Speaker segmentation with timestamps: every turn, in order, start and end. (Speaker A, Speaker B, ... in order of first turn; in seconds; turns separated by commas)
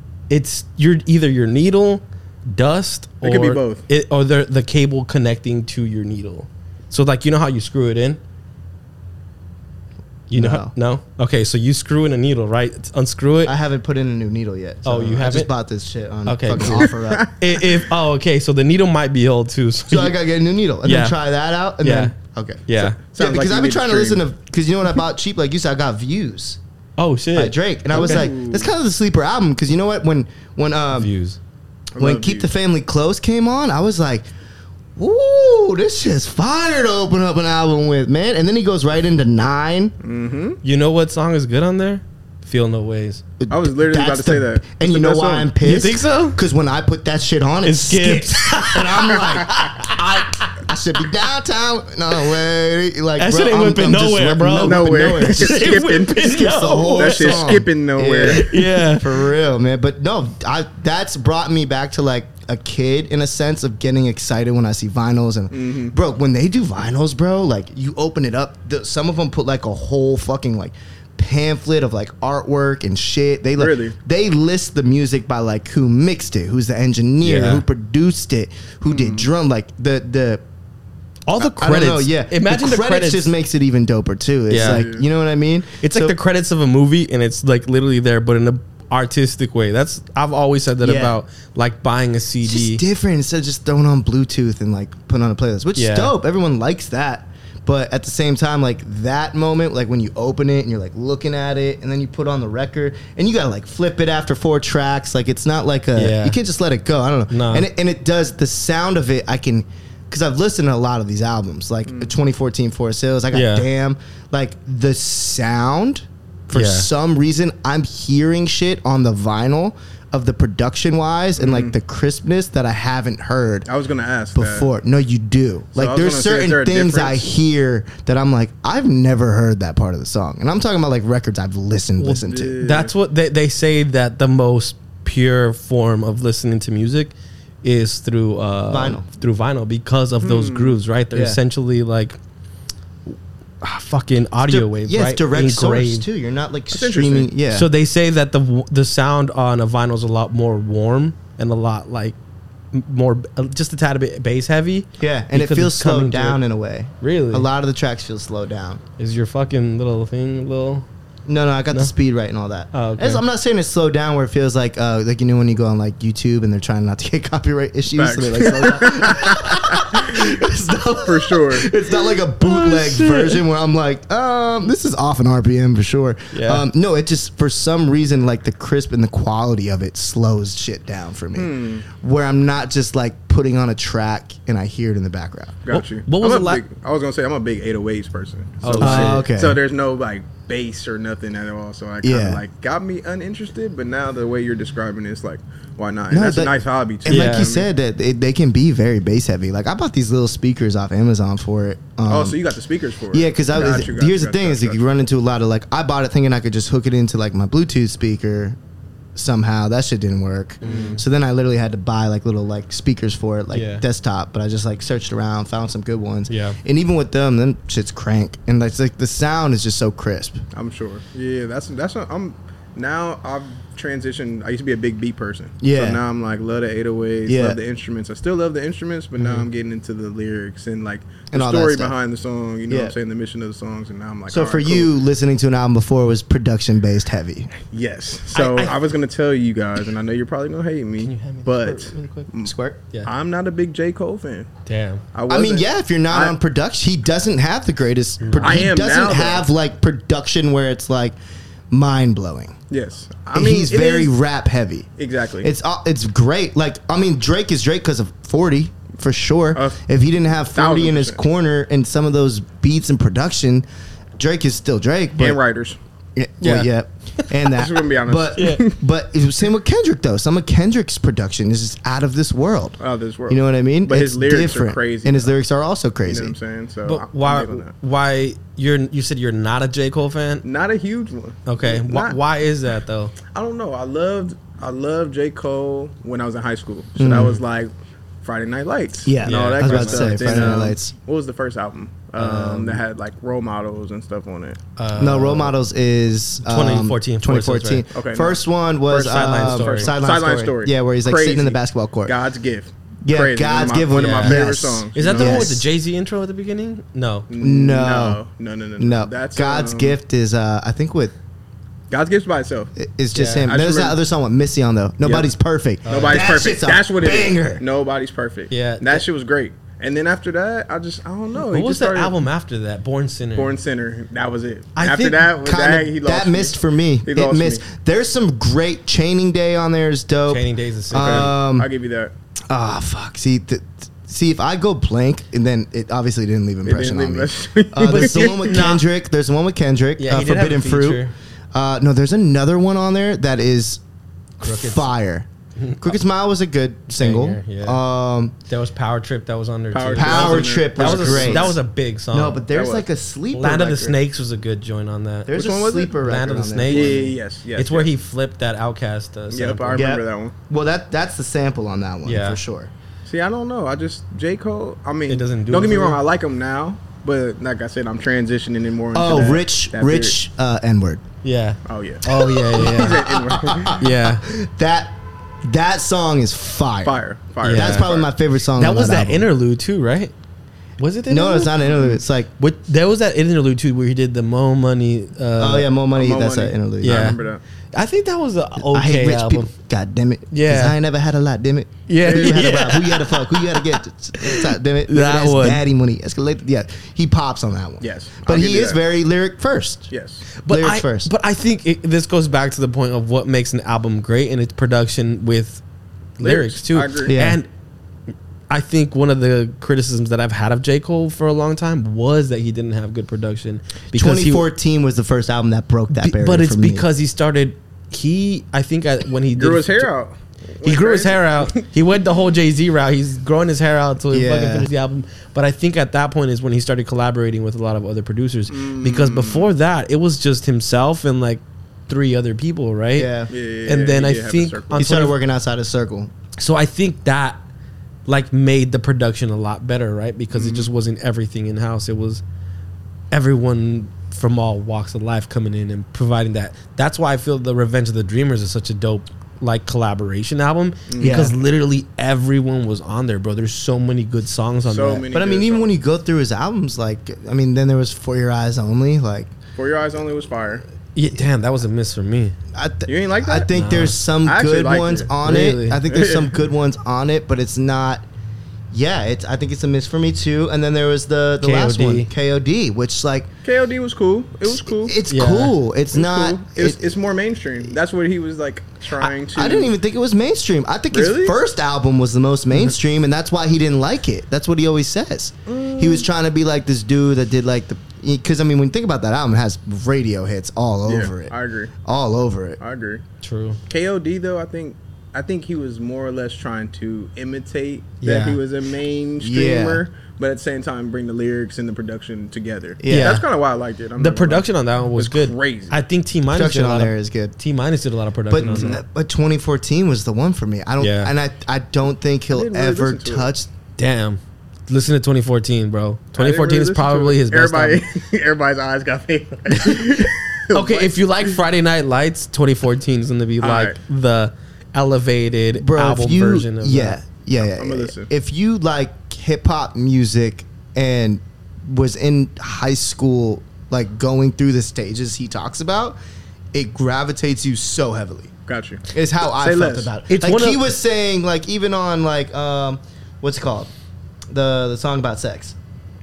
Speaker A: 0.3-8.2, Speaker B: 3.2-3.8, Speaker A: 10.3-13.5, Speaker C: 10.3-10.7, Speaker C: 13.4-17.3, Speaker A: 14.8-15.5, Speaker A: 16.2-20.2, Speaker B: 16.6-17.8, Speaker C: 19.9-26.6, Speaker A: 20.8-21.2, Speaker A: 21.8-22.1, Speaker A: 22.7-23.0, Speaker B: 23.1-24.2, Speaker A: 27.0-28.3, Speaker C: 27.3-31.1, Speaker B: 27.9-28.7, Speaker A: 30.9-31.4, Speaker B: 31.9-32.5, Speaker C: 32.0-34.3, Speaker C: 35.0-39.9, Speaker B: 40.0-40.6, Speaker A: 40.6-43.2, Speaker C: 43.4-80.4, Speaker B: 43.5-45.5, Speaker A: 45.6-46.4, Speaker A: 47.6-50.5, Speaker A: 53.2-57.7, Speaker B: 54.6-58.5, Speaker A: 58.2-59.3, Speaker B: 65.5-65.9, Speaker B: 73.6-73.9, Speaker A: 77.2-77.6, Speaker B: 78.8-79.3, Speaker A: 81.3-83.3, Speaker C: 81.4-86.1, Speaker A: 84.5-84.9, Speaker B: 84.6-85.0, Speaker A: 85.8-92.8, Speaker C: 90.8-91.2, Speaker C: 92.4-123.7, Speaker A: 95.8-96.1, Speaker A: 105.9-106.4, Speaker A: 107.3-107.7, Speaker B: 111.9-112.1, Speaker A: 113.3-113.7, Speaker A: 116.5-116.9, Speaker B: 121.4-121.8, Speaker B: 123.7-124.7, Speaker C: 124.3-132.6, Speaker B: 125.7-127.3, Speaker A: 132.0-142.2, Speaker B: 132.2-132.9, Speaker C: 138.7-139.1, Speaker B: 140.2-140.8, Speaker C: 141.1-141.4, Speaker A: 143.1-146.1, Speaker C: 144.4-147.7, Speaker B: 146.7-147.3, Speaker A: 147.5-152.2, Speaker A: 152.7-156.4, Speaker C: 155.0-158.8, Speaker A: 157.0-157.5, Speaker A: 159.0-160.8, Speaker C: 161.3-185.6, Speaker A: 162.7-163.2, Speaker B: 167.9-170.4, Speaker B: 170.9-171.7, Speaker A: 172.4-173.4, Speaker A: 176.3-176.7, Speaker B: 181.3-181.8, Speaker B: 185.6-197.7, Speaker A: 185.7-186.6, Speaker A: 188.6-189.3, Speaker C: 188.8-189.6, Speaker C: 192.0-192.4, Speaker C: 196.1-196.5, Speaker C: 197.0-202.4, Speaker A: 197.1-197.5, Speaker B: 202.1-204.8, Speaker C: 203.1-208.6, Speaker C: 209.1-220.4, Speaker A: 210.6-211.0, Speaker B: 210.6-211.0, Speaker A: 213.5-213.8, Speaker A: 216.3-216.6, Speaker B: 220.5-234.9, Speaker C: 225.6-226.0, Speaker C: 227.3-227.6, Speaker A: 229.2-229.5, Speaker C: 231.3-231.9, Speaker C: 232.7-232.9, Speaker C: 234.3-237.5, Speaker B: 237.7-244.5, Speaker A: 238.3-238.8, Speaker A: 241.0-242.3, Speaker C: 242.4-242.8, Speaker A: 244.7-245.0, Speaker B: 245.1-246.3, Speaker C: 245.3-251.2, Speaker A: 248.2-248.7, Speaker B: 248.4-249.5, Speaker C: 251.7-252.5, Speaker B: 252.7-254.1, Speaker C: 253.3-254.9, Speaker B: 255.0-255.5, Speaker C: 255.4-263.6, Speaker B: 259.5-259.8, Speaker B: 260.5-261.2, Speaker C: 264.2-265.4, Speaker B: 265.2-265.8, Speaker C: 266.1-272.8, Speaker A: 266.4-266.7, Speaker B: 267.5-268.8, Speaker A: 268.4-268.6, Speaker B: 272.8-275.3, Speaker C: 273.3-276.3, Speaker B: 276.1-277.7, Speaker A: 276.8-280.4, Speaker B: 280.4-282.2, Speaker A: 281.4-283.1, Speaker B: 283.3-287.7, Speaker C: 287.0-287.4, Speaker B: 288.2-294.6, Speaker C: 289.0-290.9, Speaker A: 289.2-290.7, Speaker A: 292.2-292.8, Speaker A: 294.8-295.5, Speaker C: 294.9-302.1, Speaker A: 296.4-297.8, Speaker B: 297.9-305.5, Speaker A: 299.1-299.9, Speaker C: 303.0-305.6, Speaker A: 303.9-307.3, Speaker B: 307.3-310.0, Speaker C: 307.4-308.2, Speaker C: 308.8-311.1, Speaker B: 311.9-312.7, Speaker C: 312.8-317.6, Speaker A: 313.1-313.5, Speaker B: 313.3-314.0, Speaker B: 315.0-315.3, Speaker A: 315.8-316.3, Speaker B: 315.9-322.2, Speaker A: 318.5-319.0, Speaker A: 321.3-323.6, Speaker B: 323.3-327.6, Speaker A: 324.8-325.3, Speaker C: 325.4-331.7, Speaker A: 330.3-331.3, Speaker B: 330.9-332.1, Speaker C: 332.5-341.0, Speaker B: 336.6-338.7, Speaker A: 337.8-338.8, Speaker A: 340.0-341.1, Speaker C: 341.5-343.8, Speaker C: 344.4-345.3, Speaker A: 344.4-344.9, Speaker A: 345.6-346.0, Speaker C: 345.8-348.3, Speaker A: 347.0-347.8, Speaker A: 348.5-352.4, Speaker B: 349.7-351.6, Speaker C: 349.9-351.6, Speaker C: 352.1-354.0, Speaker B: 352.5-352.9, Speaker A: 353.3-355.3, Speaker C: 355.3-357.1, Speaker B: 355.3-355.9, Speaker A: 356.0-359.8, Speaker B: 356.6-357.9, Speaker B: 359.3-360.3, Speaker C: 359.7-362.7, Speaker A: 362.0-362.4, Speaker B: 363.1-370.1, Speaker A: 365.1-366.0, Speaker C: 368.9-371.0, Speaker A: 371.2-373.0, Speaker B: 371.6-373.8, Speaker C: 372.1-377.0, Speaker A: 373.8-374.2, Speaker B: 376.8-378.1, Speaker A: 377.4-377.9, Speaker C: 377.5-379.3, Speaker A: 378.5-380.1, Speaker A: 380.8-381.6, Speaker C: 381.1-382.3, Speaker B: 381.6-382.0, Speaker A: 382.4-385.7, Speaker C: 385.4-387.1, Speaker B: 385.9-387.4, Speaker A: 386.8-387.2, Speaker A: 387.7-389.5, Speaker C: 388.6-399.9, Speaker A: 390.3-390.8, Speaker A: 391.9-395.6, Speaker B: 392.0-392.6, Speaker B: 397.8-398.8, Speaker B: 399.9-400.3, Speaker A: 400.4-405.6, Speaker C: 400.5-401.1, Speaker A: 406.2-407.5, Speaker B: 406.2-407.1, Speaker C: 407.1-407.4, Speaker A: 408.5-414.5, Speaker C: 413.9-416.9, Speaker A: 415.9-419.9, Speaker B: 419.3-421.7, Speaker A: 420.6-433.1, Speaker C: 424.1-424.7, Speaker B: 428.5-429.5, Speaker C: 433.0-433.3, Speaker B: 433.3-434.9, Speaker A: 433.6-435.1, Speaker C: 434.8-436.1, Speaker A: 436.4-437.4, Speaker A: 438.1-442.2, Speaker B: 440.3-440.7, Speaker A: 443.1-455.0, Speaker B: 450.9-451.3, Speaker C: 451.0-451.3, Speaker B: 454.6-455.7, Speaker C: 455.1-459.3, Speaker B: 459.6-460.6, Speaker A: 460.9-462.4, Speaker C: 462.5-468.0, Speaker B: 462.9-463.5, Speaker A: 463.5-464.0, Speaker B: 464.2-465.1, Speaker A: 465.2-465.8, Speaker B: 465.9-466.4, Speaker C: 468.7-473.3, Speaker A: 471.4-472.1, Speaker B: 473.4-474.9, Speaker C: 474.4-476.9, Speaker A: 475.1-475.5, Speaker B: 475.9-479.7, Speaker C: 479.3-491.3, Speaker B: 480.9-481.4, Speaker B: 485.5-486.1, Speaker B: 490.9-491.7, Speaker C: 491.8-492.6, Speaker B: 492.6-493.0, Speaker A: 493.2-493.6, Speaker B: 493.7-505.8, Speaker A: 498.0-498.4, Speaker C: 499.2-499.8, Speaker C: 502.8-503.2, Speaker A: 502.9-503.3, Speaker A: 504.0-508.8, Speaker C: 506.3-507.3, Speaker C: 508.3-513.5, Speaker B: 508.4-508.8, Speaker A: 510.8-511.1, Speaker B: 512.3-513.3, Speaker A: 513.8-517.8, Speaker B: 516.1-521.4, Speaker A: 519.5-527.0, Speaker B: 523.4-523.8, Speaker C: 525.5-536.0, Speaker B: 527.4-528.1, Speaker C: 536.5-538.3, Speaker B: 538.5-539.9, Speaker C: 538.9-543.7, Speaker A: 540.1-540.6, Speaker C: 544.3-545.5